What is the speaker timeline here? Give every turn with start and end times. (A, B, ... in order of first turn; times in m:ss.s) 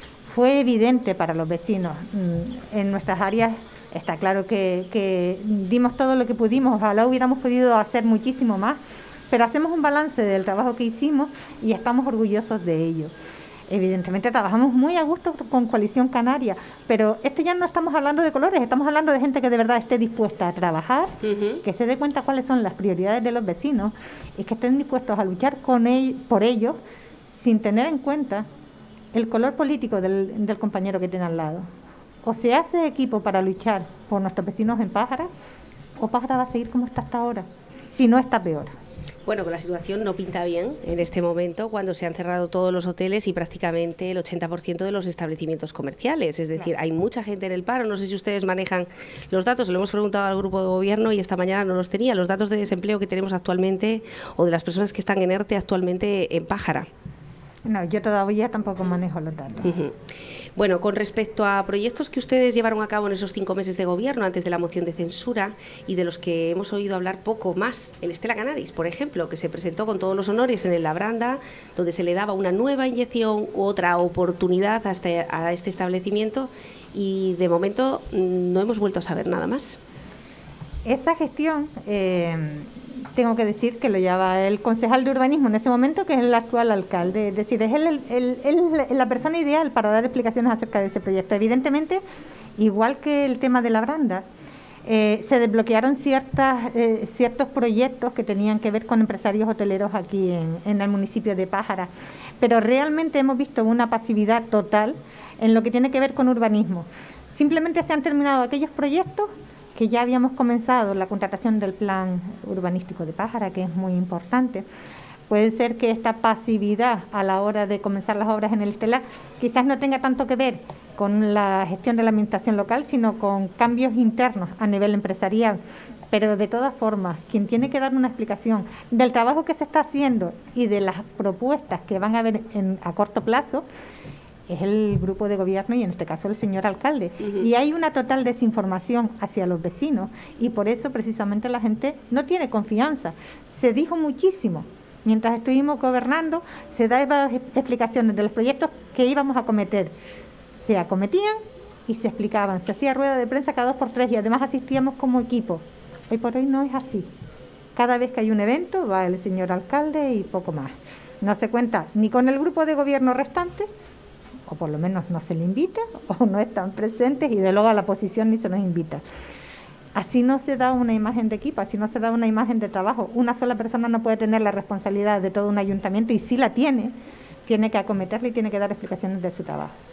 0:00.3-0:13.1 A
0:13.7-0:26.8 A
0:21.2-0:21.6 B
0:27.3-0:28.5 A
0:29.1-0:31.7 A
0:32.2-0:35.3 A
0:36.0-0:38.7 A
0:39.2-0:56.9 B
0:57.6-0:59.7 A
0:59.6-1:00.0 B
1:00.6-1:19.8 B
1:20.9-1:32.0 A
1:32.6-1:34.2 A
1:34.8-1:54.6 A
1:55.3-2:05.6 A
2:06.1-2:13.6 A
2:14.5-2:29.9 A
2:30.6-2:37.1 A
2:37.8-2:43.7 A
2:44.5-2:49.0 A
2:50.0-2:56.9 A
2:57.4-2:59.7 A